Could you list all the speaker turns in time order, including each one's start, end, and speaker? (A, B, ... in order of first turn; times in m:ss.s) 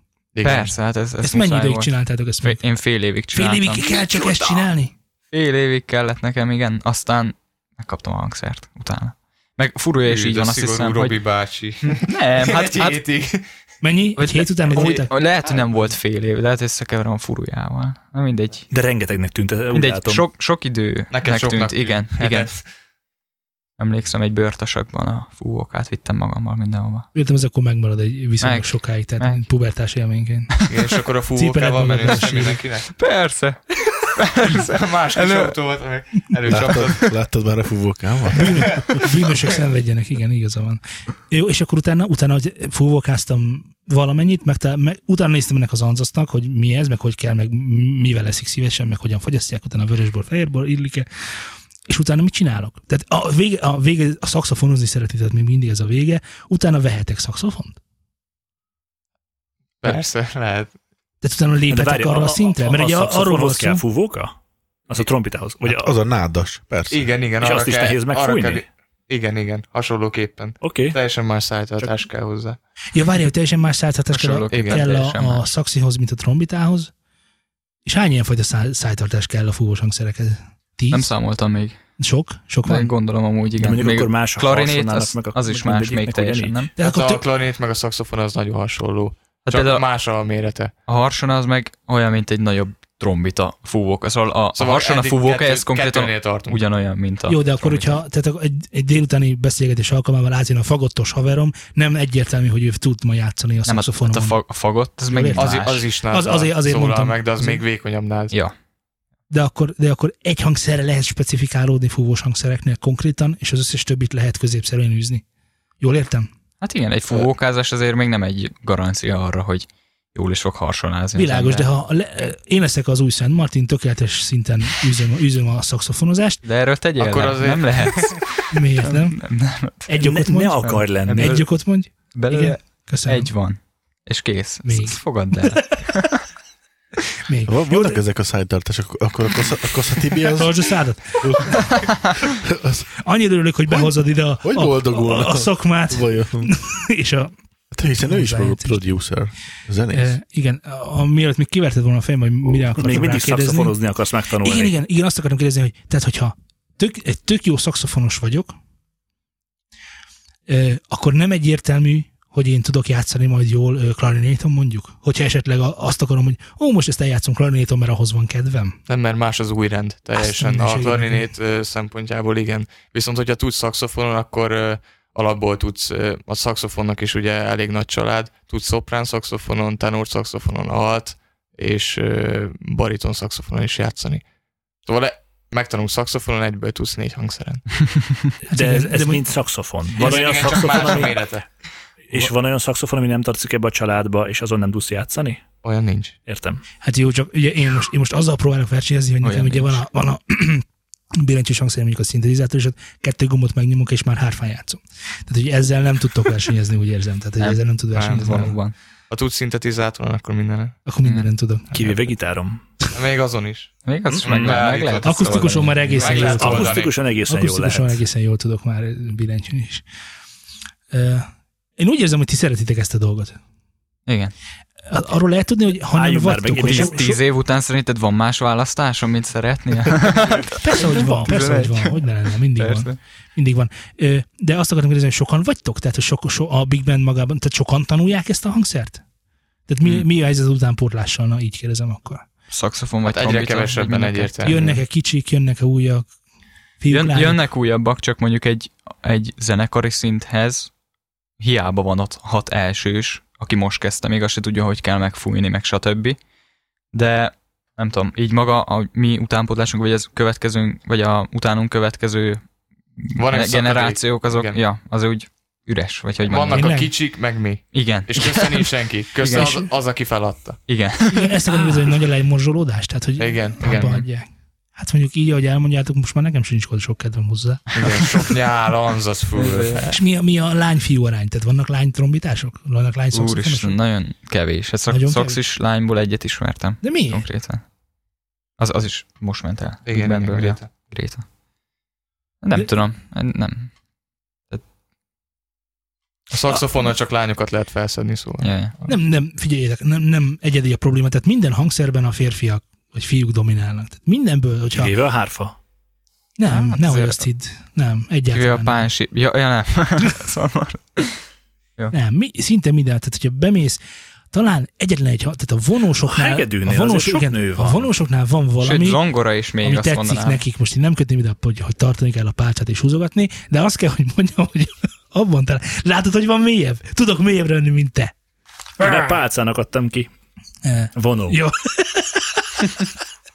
0:00.4-0:00.7 A
0:00.4-0:03.8 B
0:01.2-0:02.6 C
0:03.3-0:04.9 C
0:05.3-0:11.2 B
0:10.0-0:13.4 A
0:11.8-0:13.0 B
0:13.8-0:15.1 C
0:14.2-0:18.7 B
0:14.7-0:15.0 A
0:18.7-0:20.2 D
0:19.7-0:22.5 B
0:21.1-0:22.6 A
0:23.8-0:27.1 B
0:27.1-0:30.6 C
0:28.4-0:29.4 B
0:30.6-0:30.9 B
0:30.7-0:32.9 A
0:31.4-0:32.6 C
0:33.0-0:35.6 B
0:34.5-0:37.0 A
0:36.5-0:38.9 E
0:38.4-0:51.1 C
0:51.9-0:57.8 C
0:59.8-1:00.7 A
1:01.2-1:03.8 C
1:01.7-1:04.3 D
1:04.9-1:05.9 D
1:05.6-1:07.1 E
1:06.9-1:12.6 A
1:07.4-1:08.7 D
1:10.6-1:11.0 D
1:12.9-1:16.9 C
1:14.1-1:15.4 B
1:14.5-1:14.8 A
1:17.9-1:21.1 C
1:20.9-1:21.8 B
1:22.0-1:22.9 C
1:22.6-1:26.7 B
1:23.6-1:26.7 D
1:26.8-1:27.2 C
1:26.8-1:30.7 A
1:29.4-1:29.8 B
1:30.9-1:38.0 B
1:34.6-1:36.6 A
1:37.3-1:44.4 C
1:43.7-1:45.9 B
1:45.1-1:47.6 C
1:45.4-1:48.3 A
1:49.3-1:55.2 C
1:55.8-1:56.3 C
1:56.6-2:01.7 B
2:01.2-2:06.4 C
2:06.4-2:09.9 B
2:07.0-2:08.2 A
2:08.5-2:09.2 C
2:09.9-2:13.3 C
2:10.0-2:11.4 D
2:11.1-2:11.5 B
2:12.1-2:16.2 B
2:14.6-2:15.8 C
2:17.3-2:18.0 C
2:17.5-2:22.9 E
2:20.3-2:21.7 C
2:23.0-2:27.3 C
2:23.7-2:26.5 E
2:27.7-2:30.2 E
2:28.0-2:28.8 C
2:29.9-2:33.8 C
2:32.8-2:34.8 D
2:34.4-2:38.6 C
2:40.5-2:48.8 C
2:48.9-3:04.2 A
2:50.2-2:51.3 C
3:04.8-3:07.8 A
3:08.5-3:09.3 C
3:08.5-3:11.3 D
3:10.0-3:11.5 A
3:12.1-3:15.4 D
3:15.6-3:16.2 A
3:16.3-3:16.6 D
3:16.8-3:28.6 C
3:19.2-3:19.8 B
3:27.4-3:28.8 B
3:28.0-3:28.4 A
3:29.1-3:30.8 A
3:30.9-3:32.0 C
3:31.0-3:31.3 B
3:31.7-3:32.6 D
3:32.9-3:37.0 A
3:33.8-3:36.4 B
3:34.1-3:34.6 D
3:35.0-3:39.8 C
3:36.0-3:38.0 D
3:40.9-3:43.4 C
3:44.1-3:44.3 B
3:44.9-3:47.2 C
3:45.9-3:47.1 D
3:46.6-3:52.0 B
3:50.5-3:59.0 C
3:52.6-3:53.0 B
3:59.7-4:02.3 C
4:02.5-4:04.7 B
4:03.0-4:04.8 A
4:04.4-4:06.1 C
4:06.8-4:07.4 C
4:06.9-4:10.7 B
4:11.4-4:16.2 B
4:16.9-4:22.4 B
4:23.0-4:26.8 B
4:23.2-4:24.6 A
4:26.2-4:30.6 A
4:26.5-4:26.9 C
4:27.7-4:29.7 B
4:30.7-4:31.4 B
4:31.1-4:38.0 C
4:33.2-4:34.0 A
4:33.6-4:34.0 B
4:37.8-4:40.0 A
4:39.3-4:40.0 B
4:39.8-4:43.8 C
4:43.1-4:47.6 B
4:44.9-4:45.4 C
4:46.8-4:47.2 C
4:48.6-4:51.2 B
4:49.9-4:50.7 A
4:52.4-4:53.7 B
4:56.3-4:58.9 A
4:58.4-4:58.7 B
4:58.9-5:04.9 C
5:04.8-5:05.6 D
5:06.4-5:08.9 C
5:06.5-5:07.2 B
5:08.3-5:11.2 B
5:11.9-5:13.8 C
5:14.3-5:19.0 C
5:16.1-5:17.9 D
5:18.6-5:20.4 B
5:19.6-5:28.1 C
5:28.8-5:30.1 D
5:30.6-5:32.2 C
5:31.0-5:31.4 D